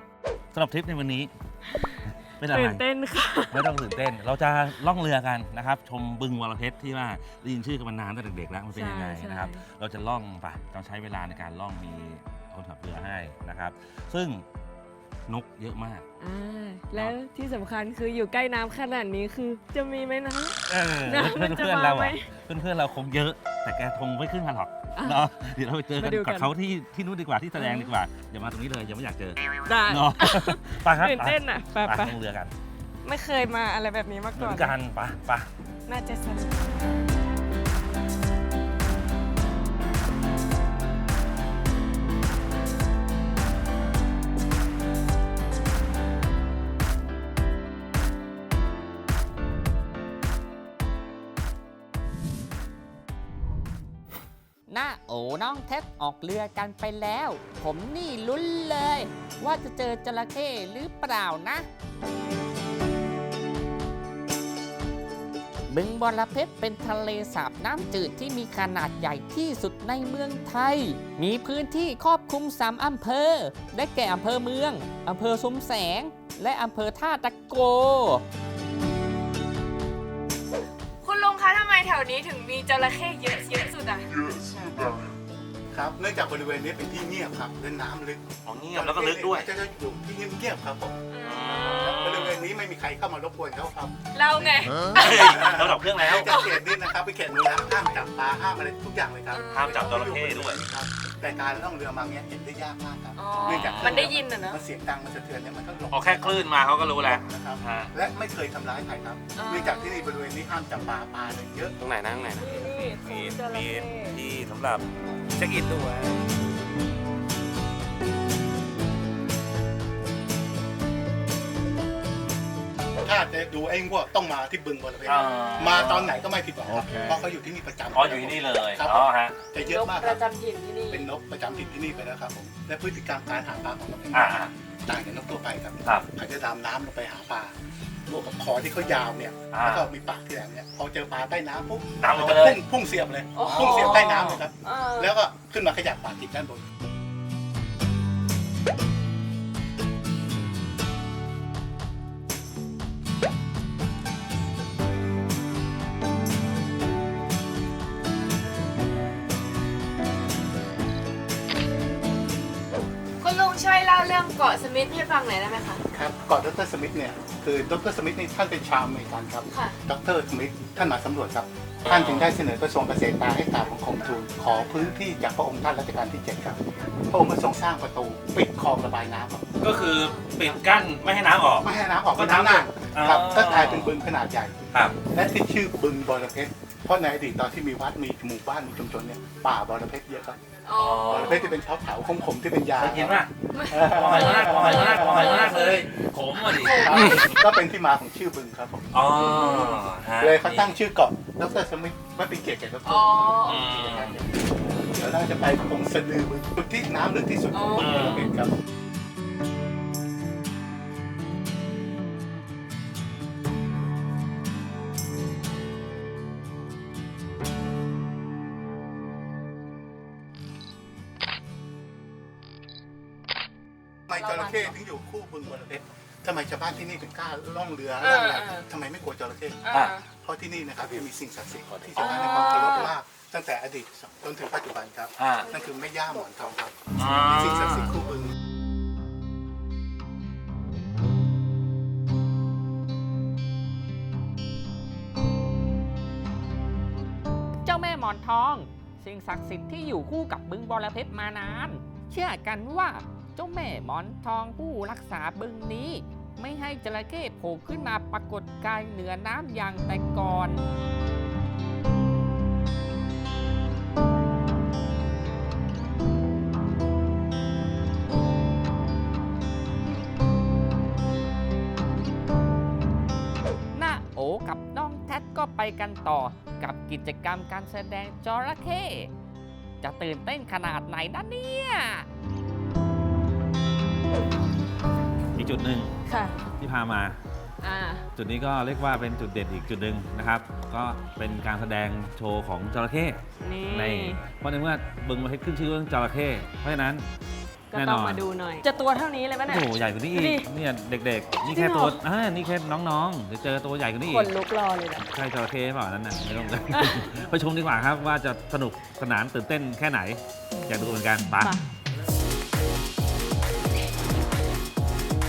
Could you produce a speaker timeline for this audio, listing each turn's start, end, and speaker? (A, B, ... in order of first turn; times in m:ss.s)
0:00.5-0:01.3 A
0:02.2-0:02.8 A
0:02.5-0:03.8 B
0:03.5-0:14.4 A
0:08.7-0:09.6 B
0:15.3-0:16.0 A
0:16.2-0:22.3 B
0:20.7-0:32.5 A
0:25.0-0:25.2 B
0:26.0-0:26.5 B
0:27.6-0:27.9 B
0:29.6-0:32.2 B
0:33.0-0:34.7 B
0:34.3-0:35.5 A
0:35.9-0:36.6 B
0:54.7-1:01.7 C
1:05.7-1:18.2 C
1:21.0-1:24.1 B
1:24.2-1:25.0 D
1:25.7-1:30.9 D
1:28.4-1:29.5 A
1:31.1-1:32.3 B
1:31.2-1:32.4 A
1:31.5-1:51.8 D
1:34.1-1:35.5 B
1:34.9-1:36.3 A
1:36.1-1:36.5 B
1:39.3-1:40.1 B
1:39.5-1:40.7 A
1:43.2-1:44.6 B
1:43.4-1:44.1 A
1:45.9-1:47.9 A
1:49.3-1:50.1 B
1:51.9-1:56.2 A
1:52.2-1:54.2 B
2:03.0-2:10.3 D
2:05.1-2:07.2 A
2:07.9-2:09.5 A
2:09.6-2:11.1 B
2:10.9-2:17.5 D
2:14.1-2:14.5 A
2:18.1-2:26.6 D
2:19.5-2:19.9 A
2:22.0-2:22.6 A
2:23.3-2:25.1 B
2:43.2-2:45.8 B
2:45.9-2:56.6 D
2:49.5-2:49.8 B
2:51.8-2:52.3 A
2:57.1-2:59.6 D
2:59.6-3:03.9 A
3:01.6-3:10.4 D
3:10.7-3:11.1 B
3:10.8-3:11.4 A
3:10.9-3:15.6 D
3:12.8-3:17.4 A
3:13.5-3:15.8 B
3:16.5-3:17.1 B
3:16.5-3:19.2 D
3:18.9-3:20.8 A
3:19.2-3:19.7 B
3:20.2-3:28.5 D
3:22.8-3:23.6 B
3:23.4-3:24.1 A
3:27.5-3:28.2 B
3:27.8-3:28.3 A
3:44.1-3:58.3 D
3:44.1-3:44.8 B
3:48.0-3:48.6 B
3:49.6-3:50.0 B
3:52.0-3:52.9 B
3:52.1-3:52.5 A
3:55.2-3:55.4 A
3:56.9-3:57.9 A
4:07.6-4:20.6 C
4:33.7-4:39.1 C
4:39.8-4:42.1 C
4:45.4-4:45.9 A
4:46.1-4:46.4 B
4:46.6-4:47.2 A
4:47.6-4:48.1 B
4:48.2-4:57.1 A
4:53.4-4:54.2 B
4:57.7-5:00.5 B
4:57.7-4:58.2 A
4:59.4-5:04.3 A
5:01.5-5:02.0 B
5:04.1-5:05.1 B
5:05.0-5:11.6 A
5:06.7-5:07.1 B
5:11.4-5:11.6 B